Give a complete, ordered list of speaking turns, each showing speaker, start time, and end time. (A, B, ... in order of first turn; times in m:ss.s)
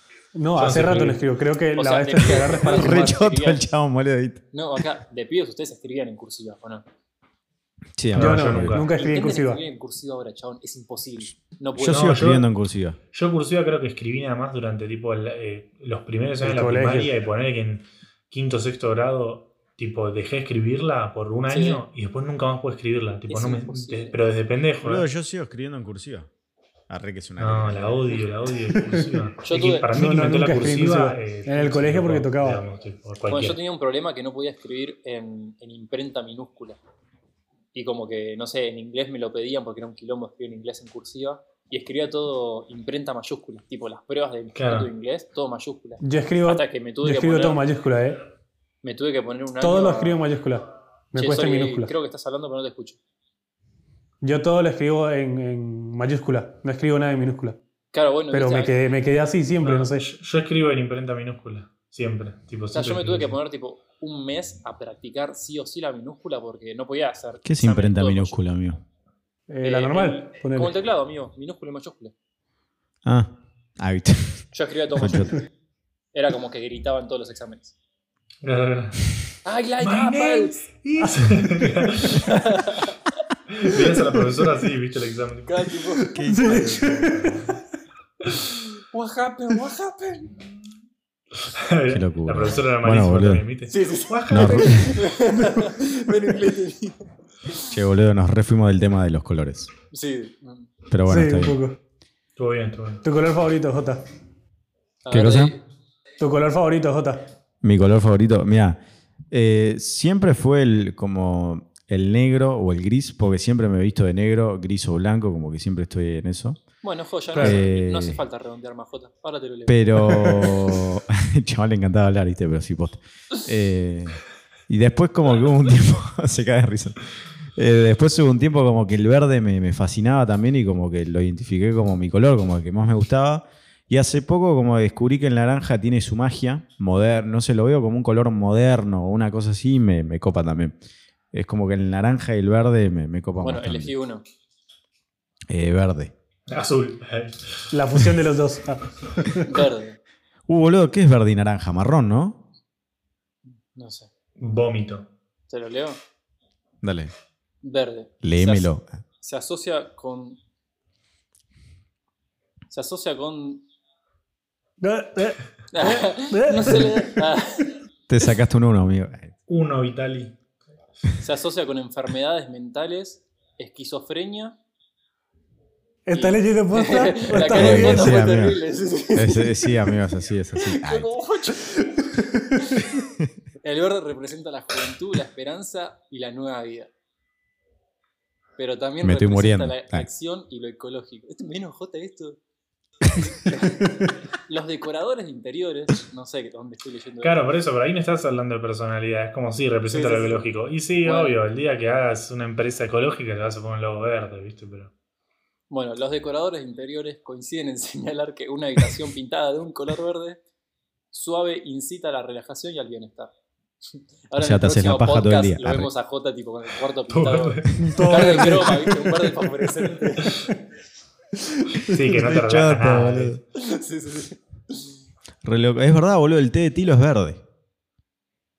0:00.4-0:03.1 A
0:00.6-0:01.2 B
0:01.7-0:03.7 C
0:02.7-0:04.4 D
0:04.5-0:06.8 C
0:08.0-0:08.8 D
0:08.1-0:08.9 B
0:08.1-0:09.6 A
0:08.8-0:12.1 C
0:11.8-0:13.0 D
0:11.9-0:12.5 B
0:13.1-0:25.1 B
0:16.4-0:17.1 A
0:21.5-0:21.8 C
0:23.3-0:24.2 C
0:24.8-0:26.3 D
0:26.9-0:28.2 D
0:27.4-0:33.6 B
0:28.9-0:29.2 A
0:29.4-0:29.9 C
0:29.9-0:32.6 A
0:33.3-0:36.8 C
0:37.7-0:47.6 C
0:44.6-0:44.9 B
0:46.0-0:48.2 A
0:48.8-0:50.2 C
0:49.6-0:51.9 A
0:51.1-0:53.0 C
0:54.2-0:57.6 A
0:57.9-0:58.8 C
0:58.3-1:00.0 A
0:59.6-1:03.4 B
1:02.7-1:08.4 C
1:07.4-1:08.8 D
1:09.5-1:10.7 A
1:09.6-1:12.1 C
1:13.0-1:15.4 D
1:14.5-1:15.4 C
1:16.1-1:17.8 C
1:18.4-1:19.2 B
1:19.4-1:20.6 C
1:19.8-1:22.4 B
1:22.1-1:22.9 C
1:23.5-1:25.5 B
1:25.5-1:26.6 C
1:26.1-1:27.3 D
1:26.2-1:27.5 A
1:27.1-1:27.4 B
1:28.9-1:30.4 C
1:31.5-1:34.9 B
1:31.9-1:33.5 D
1:33.7-1:37.5 C
1:34.3-1:35.0 D
1:37.7-1:39.7 D
1:39.9-1:40.7 C
1:40.9-1:41.6 D
1:41.1-1:41.8 A
1:42.4-1:43.0 B
1:43.0-1:44.0 A
1:45.0-1:45.6 C
1:45.1-1:45.5 D
1:46.2-1:47.3 A
1:47.6-1:48.8 D
1:49.3-1:56.6 D
1:56.8-2:00.4 C
1:57.4-1:58.2 D
1:59.7-2:07.0 D
2:07.6-2:20.8 D
2:21.3-2:23.9 D
2:23.4-2:24.2 C
2:25.5-2:26.1 D
2:26.5-2:28.1 B
2:27.7-2:29.6 A
2:29.5-2:30.0 C
2:30.5-2:32.4 D
2:33.5-2:34.1 C
2:34.4-2:35.1 B
2:35.5-2:36.0 C
2:36.8-2:37.1 D
2:37.6-2:40.4 C
2:38.2-2:38.9 D
2:42.7-2:43.6 C
2:44.8-2:47.2 A
2:45.7-2:47.8 C
2:48.1-2:49.3 D
2:49.5-2:50.4 B
2:51.2-2:54.6 C
2:56.1-2:58.2 A
2:56.1-3:00.0 C
2:57.5-3:01.1 D
3:00.6-3:03.0 C
3:03.6-3:06.9 C
3:08.6-3:12.4 C
3:09.0-3:10.1 D
3:13.2-3:17.4 C
3:17.2-3:24.9 B
3:19.9-3:21.4 C
3:25.7-3:30.4 C
3:31.1-3:33.3 C
3:33.9-3:40.3 C
3:34.4-3:35.9 D
3:37.1-3:38.1 B
3:37.8-3:39.3 A
3:41.8-3:43.4 B
3:42.1-3:43.4 D
3:43.6-3:44.9 C
3:45.4-3:47.4 D